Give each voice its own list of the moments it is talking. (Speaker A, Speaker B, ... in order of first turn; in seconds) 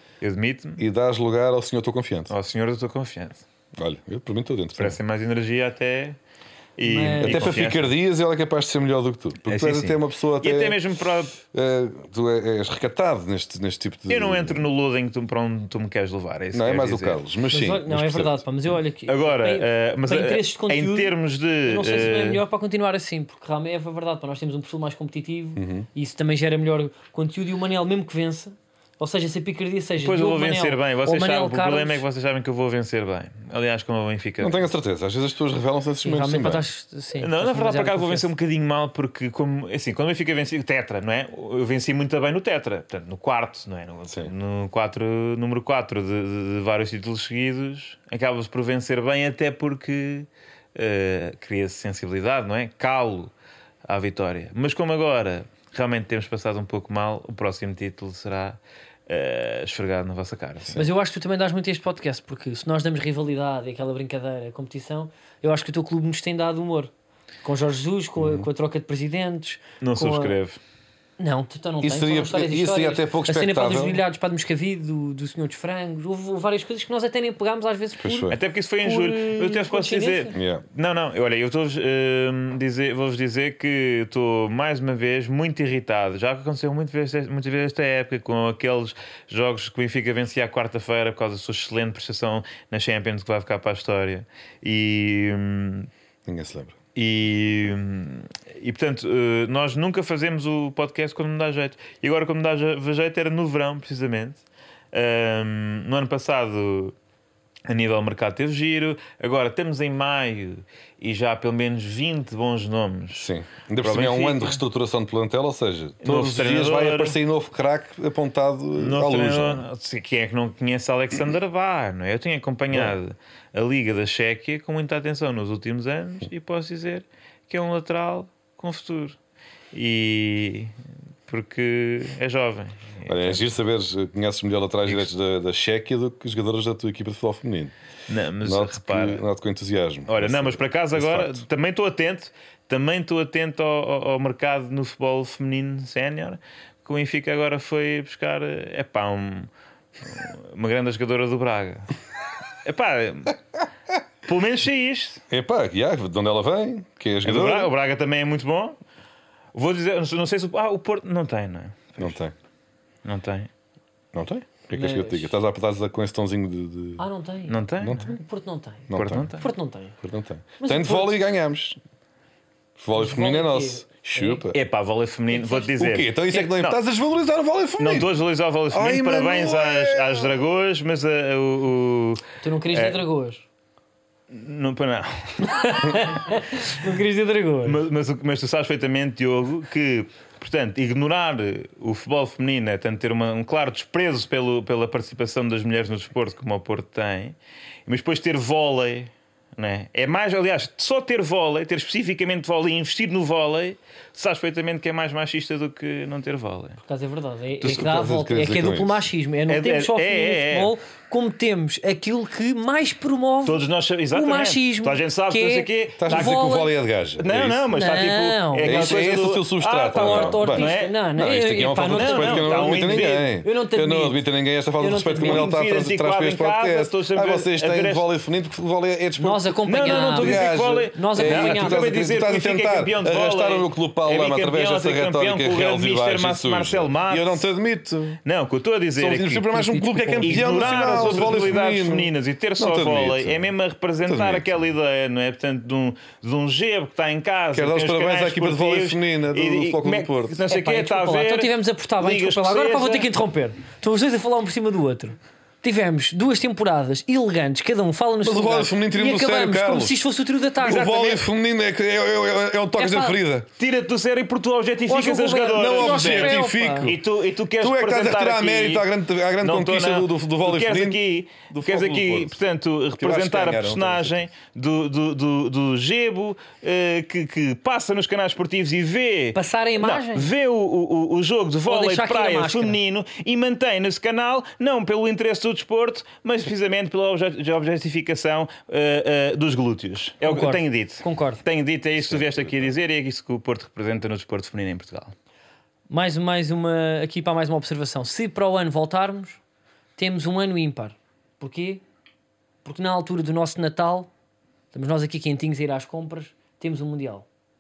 Speaker A: 0.2-0.8, 2.3-3.4, 4.8-6.2, 6.8-7.9, 9.4-11.3, 14.1-17.2, 19.1-22.4, 30.0-34.6, 37.2-53.3, 53.8-60.8, 69.8-70.6, 78.3-95.9, 97.0-106.9, 107.7-113.3, 113.8-114.6, 116.0-117.2, 118.8-129.2, 129.7-130.7, 131.3-133.4, 138.1-139.2, 140.1-149.5, 150.0-151.9, 152.6-153.4, 154.2-155.2, 157.2-158.8, 159.5-162.1, 163.0-163.5, 167.5-168.2, 168.9-169.5, 174.5-176.8, 177.8-183.0, 184.3-186.1, 187.6-197.3, 197.9-206.8, 209.5-210.7, 213.4-216.6, 217.2-220.9, 221.9-223.3, 225.2-228.1, 229.7-237.4, 238.2-239.5, 240.2-253.1, 260.6-261.2, 263.6-268.8, 269.4-295.1
Speaker B: 0.8-2.3, 3.8-5.0, 7.2-10.8, 11.5-14.7, 16.5-18.4, 25.6-25.9, 34.4-36.6, 68.2-68.5, 71.8-74.0, 78.0-78.4, 80.3-80.6, 96.2-96.8, 113.1-119.6, 122.7-123.0, 133.1-137.7, 138.4-141.4, 155.3-157.7, 162.0-162.3, 164.1-167.0, 167.8-168.2, 168.9-169.3, 170.0-171.8, 172.8-174.6, 175.8-178.1, 178.7-180.3, 207.6-209.1, 216.0-217.7, 218.6-238.2, 238.9-243.5, 244.0-244.6, 247.5-250.4, 258.2-260.0, 260.6-263.5, 265.6-267.0, 267.6-272.4, 272.9-274.3, 292.0-292.7
Speaker C: 6.8-7.7, 17.5-32.0, 36.0-38.3, 60.7-66.9, 67.4-70.4, 71.2-80.4, 164.7-165.3, 167.0-167.6, 168.2-169.9, 170.6-171.2, 172.9-174.4, 175.3-175.6, 182.4-183.4, 185.4-187.8, 206.8-213.6, 214.1-216.7, 217.7-218.9, 219.9-224.2, 224.8-225.5, 229.2-232.1, 239.5-241.5, 250.5-260.9, 262.8-263.2, 264.9-266.9, 279.3-280.3, 281.7-282.8, 290.2-291.4, 295.9-299.4, 299.9-301.8, 302.6-304.1, 304.7-307.2